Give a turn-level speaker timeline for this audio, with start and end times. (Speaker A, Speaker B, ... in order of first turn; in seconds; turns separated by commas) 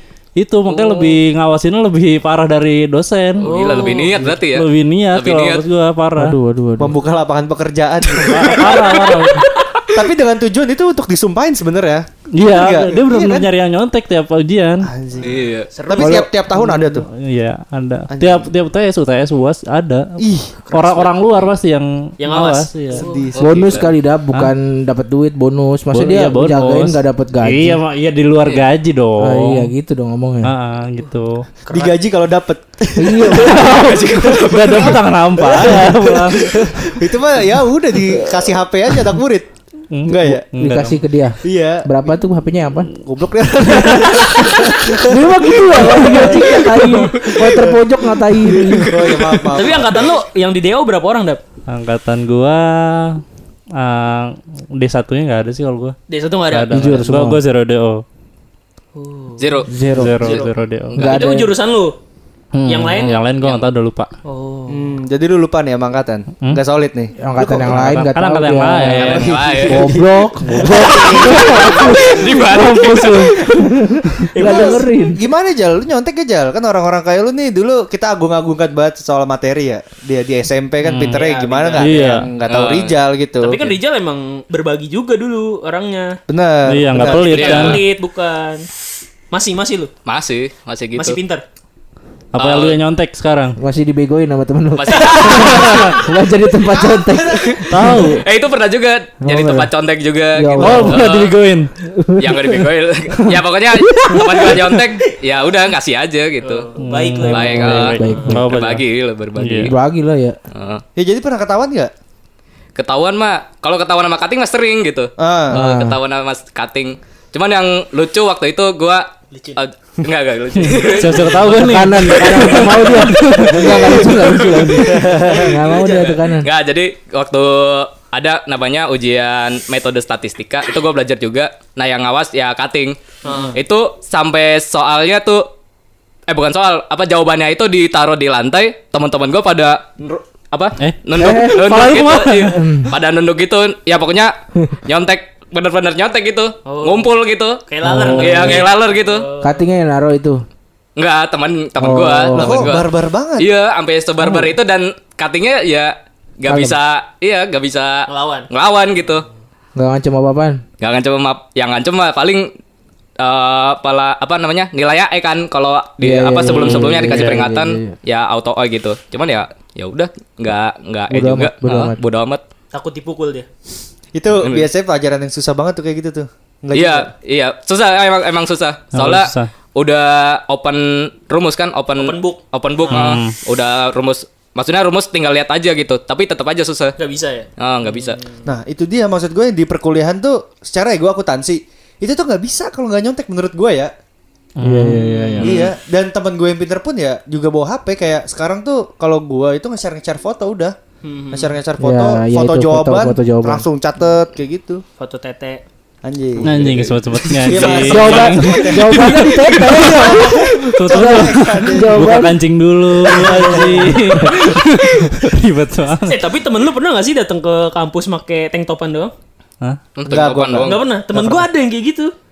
Speaker A: 0.4-3.5, Speaker B: 0.7-1.2, Speaker B: 3.4-4.2, Speaker C: 3.4-5.6, Speaker A: 4.3-6.3, Speaker D: 6.2-7.0, Speaker E: 6.8-9.0, Speaker A: 8.2-9.5, Speaker B: 8.3-9.9, Speaker E: 9.9-13.5, Speaker A: 12.3-14.9, Speaker E: 14.8-17.1, Speaker C: 15.2-15.7, Speaker B: 15.7-16.2, Speaker D: 16.0-16.6, Speaker A: 16.7-23.1, Speaker E: 18.1-18.5, Speaker E: 20.2-20.6, Speaker B: 20.6-21.5, Speaker B: 22.2-23.3, Speaker E: 22.9-23.9, Speaker C: 23.3-23.9, Speaker D: 23.4-27.8, Speaker A: 25.9-29.7, Speaker D: 29.2-30.5, Speaker A: 30.4-31.4, Speaker B: 31.6-32.0, Speaker E: 31.7-39.5, Speaker D: 33.0-33.6, Speaker A: 33.3-36.8, Speaker C: 33.7-34.9, Speaker A: 39.9-41.0, Speaker E: 40.0-40.5, Speaker D: 40.5-42.9, Speaker E: 41.4-41.9, Speaker E: 43.0-47.8, Speaker B: 43.7-44.8, Speaker D: 44.9-48.9, Speaker C: 47.0-47.3, Speaker C: 48.6-49.5, Speaker E: 48.7-50.0, Speaker B: 49.5-51.4, Speaker A: 51.7-53.2, Speaker A: 53.7-55.9, Speaker B: 56.1-57.0, Speaker A: 56.5-58.0, Speaker D: 56.7-57.4, Speaker B: 58.9-59.5, Speaker C: 59.4-60.5, Speaker D: 59.7-60.3, Speaker A: 59.9-61.3, Speaker D: 61.0-61.5, Speaker B: 61.0-61.9, Speaker D: 62.5-63.1, Speaker B: 62.6-63.1, Speaker A: 63.0-64.1, Speaker C: 63.1-63.7, Speaker B: 64.2-64.8, Speaker E: 64.7-68.0, Speaker D: 67.2-75.3, Speaker A: 67.7-69.2, Speaker C: 68.9-69.9, Speaker E: 69.0-72.4, Speaker C: 70.6-73.3, Speaker A: 72.8-73.1, Speaker B: 74.3-74.8, Speaker E: 74.4-83.7, Speaker A: 80.8-81.2, Speaker B: 81.1-82.2, Speaker A: 81.8-82.3, Speaker C: 82.4-83.0, Speaker B: 83.4-86.2, Speaker E: 86.3-87.5, Speaker A: 86.7-87.8, Speaker B: 87.1-88.6, Speaker C: 87.3-87.8, Speaker B: 89.3-89.9, Speaker C: 90.0-91.2, Speaker B: 91.0-91.4, Speaker A: 92.3-93.6, Speaker C: 92.3-92.8, Speaker D: 93.6-98.2, Speaker C: 94.7-96.0, Speaker E: 96.7-98.0, Speaker A: 97.7-98.2, Speaker C: 98.2-101.3, Speaker D: 99.2-99.7, Speaker D: 100.3-101.0, Speaker A: 100.6-101.7, Speaker D: 101.8-102.6, Speaker C: 102.2-106.7, Speaker D: 103.8-104.9, Speaker B: 106.4-108.3, Speaker A: 106.8-108.8, Speaker C: 107.3-109.7, Speaker D: 107.3-108.5, Speaker A: 109.3-109.7, Speaker D: 109.6-110.4, Speaker C: 110.5-110.8, Speaker E: 111.0-111.9, Speaker C: 112.8-122.9, Speaker E: 115.2-115.6, Speaker D: 115.5-116.0, Speaker B: 119.3-119.6, Speaker A: 120.7-123.6, Speaker B: 120.7-121.5, Speaker D: 121.6-126.5, Speaker C: 123.7-133.0, Speaker E: 124.8-125.5, Speaker B: 133.2-133.6, Speaker C: 133.5-135.5, Speaker C: 136.3-139.9, Speaker C: 140.5-144.3, Speaker A: 140.8-142.6, Speaker D: 141.2-141.8, Speaker D: 142.4-142.9, Speaker C: 144.8-147.6, Speaker B: 146.6-147.1, Speaker B: 147.6-149.6, Speaker D: 147.8-148.6, Speaker C: 148.2-149.2, Speaker D: 149.4-150.4, Speaker C: 150.9-159.2, Speaker D: 151.8-152.7, Speaker E: 152.3-153.5, Speaker D: 154.2-154.5, Speaker D: 156.4-156.8, Speaker B: 158.1-158.5, Speaker D: 159.8-160.6, Speaker C: 160.8-162.5, Speaker C: 163.2-172.4, Speaker D: 166.0-167.9, Speaker A: 166.4-167.4, Speaker D: 171.1-172.0, Speaker B: 172.7-173.5, Speaker E: 174.1-177.1, Speaker C: 174.4-174.7, Speaker C: 176.7-186.9, Speaker A: 178.9-179.5, Speaker B: 182.0-183.2, Speaker A: 182.9-183.3, Speaker B: 187.0-188.4, Speaker C: 187.6-188.2, Speaker E: 188.4-193.9, Speaker A: 194.6-195.5, Speaker D: 194.6-195.4, Speaker B: 194.9-195.6, Speaker E: 195.4-200.7, Speaker B: 201.0-201.5, Speaker E: 201.3-204.8, Speaker D: 201.8-203.6, Speaker B: 205.0-205.6, Speaker E: 206.0-212.3, Speaker A: 206.4-209.0, Speaker B: 207.5-208.6, Speaker D: 207.9-212.4, Speaker C: 209.1-209.5, Speaker A: 210.8-216.2, Speaker E: 213.0-214.1, Speaker D: 213.1-214.5, Speaker B: 213.3-213.8, Speaker B: 216.0-219.1, Speaker C: 219.9-220.8, Speaker E: 220.1-221.4, Speaker B: 220.6-222.1